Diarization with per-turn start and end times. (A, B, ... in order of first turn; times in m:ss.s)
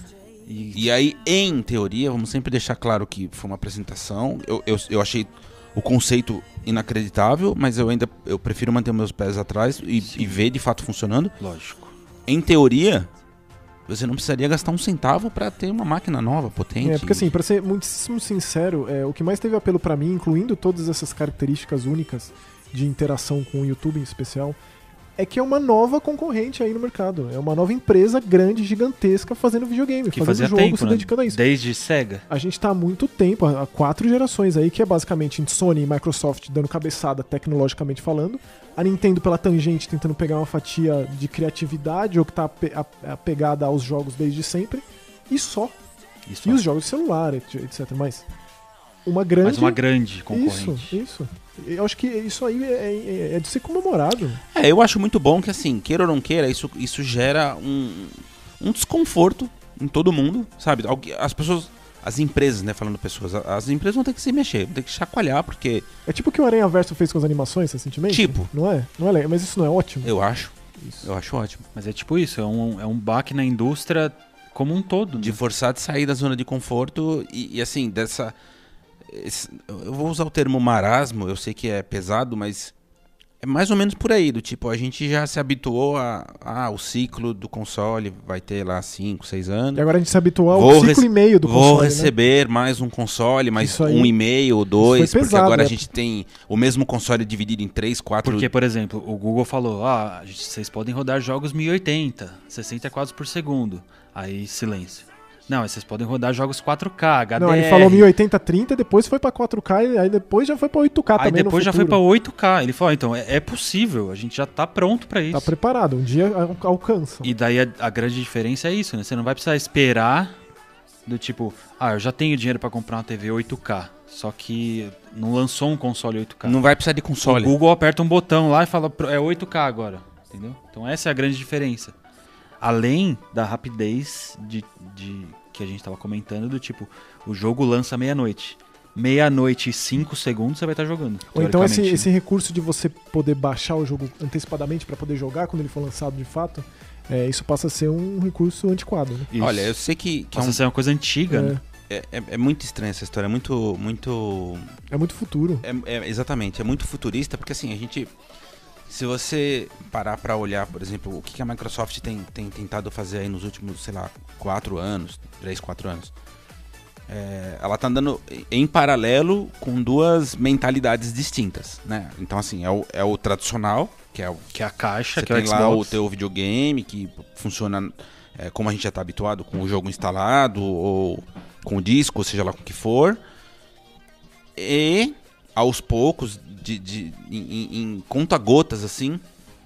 0:00.5-0:00.9 A
0:00.7-0:11.3 B
0:10.0-0:10.4 A
0:11.4-0:11.9 A
0:12.3-0:13.1 B
0:13.9-0:17.3 B
0:16.8-0:24.6 C
0:25.2-0:31.4 C
0:30.1-0:32.2 A
0:32.3-0:45.7 C
0:46.3-0:46.6 A
0:46.4-0:48.3 C
0:49.1-0:49.8 C
0:49.4-0:51.0 A
0:50.3-0:54.4 C
0:54.5-1:05.9 B
1:06.1-1:10.1 C
1:08.1-1:08.5 B
1:10.0-1:11.6 B
1:10.8-1:11.1 C
1:11.8-1:15.4 A
1:15.2-1:18.4 B
1:19.0-1:22.7 B
1:23.4-1:29.8 B
1:29.8-1:32.1 C
1:30.5-1:38.5 B
1:33.6-1:34.1 C
1:34.8-1:35.8 C
1:38.2-1:48.1 A
1:47.4-1:52.0 C
1:51.2-1:55.5 A
1:55.3-1:57.3 C
1:57.2-2:00.4 A
2:01.1-2:06.6 A
2:06.4-2:07.6 B
2:07.2-2:12.0 A
2:12.6-2:22.1 A
2:21.3-2:29.3 C
2:29.3-2:29.8 A
2:29.4-2:30.6 B
2:30.3-2:31.6 A
2:31.3-2:31.6 C
2:31.9-2:34.7 B
2:34.9-2:35.6 C
2:35.6-2:38.1 B
2:38.9-2:46.1 B
2:47.1-2:54.5 B
2:54.5-2:56.0 A
2:55.1-3:03.2 B
3:04.6-3:09.2 B